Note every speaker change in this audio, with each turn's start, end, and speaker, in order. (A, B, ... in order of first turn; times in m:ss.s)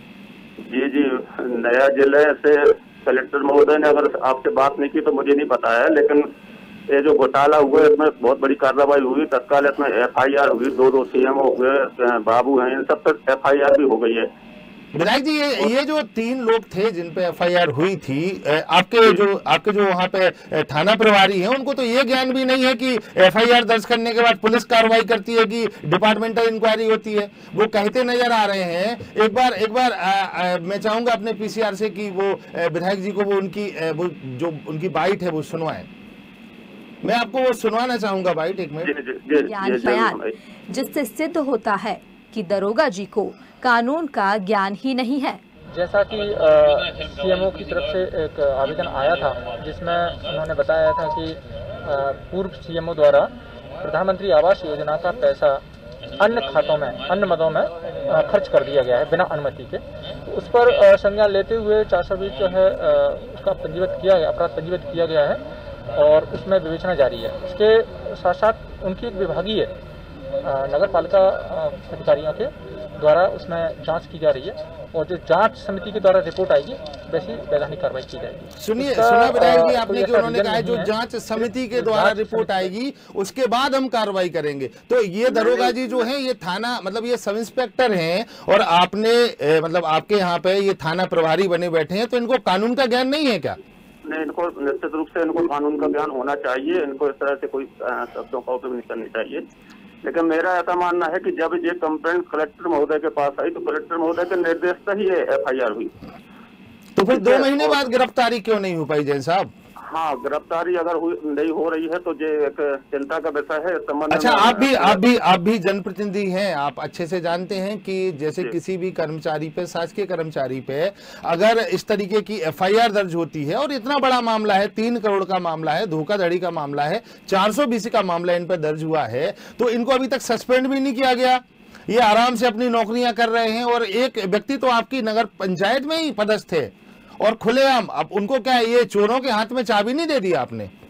0:00.7-0:06.3 A
0:06.9-0:14.3 A
0:14.9-0:35.9 B
0:37.0-0:38.9 B
0:38.8-0:40.3 A
0:39.5-0:40.2 C
0:40.7-0:45.4 C
0:45.7-0:55.6 D
0:56.2-1:05.4 D
1:06.0-1:09.7 D
1:10.4-1:20.9 D
1:18.6-1:33.6 B
1:21.7-1:22.6 D
1:25.4-1:25.8 A
1:34.0-1:39.4 A
1:40.0-1:45.9 A
1:47.0-1:49.5 B
1:47.1-1:47.8 A
1:49.8-1:55.0 A
1:54.1-2:20.7 B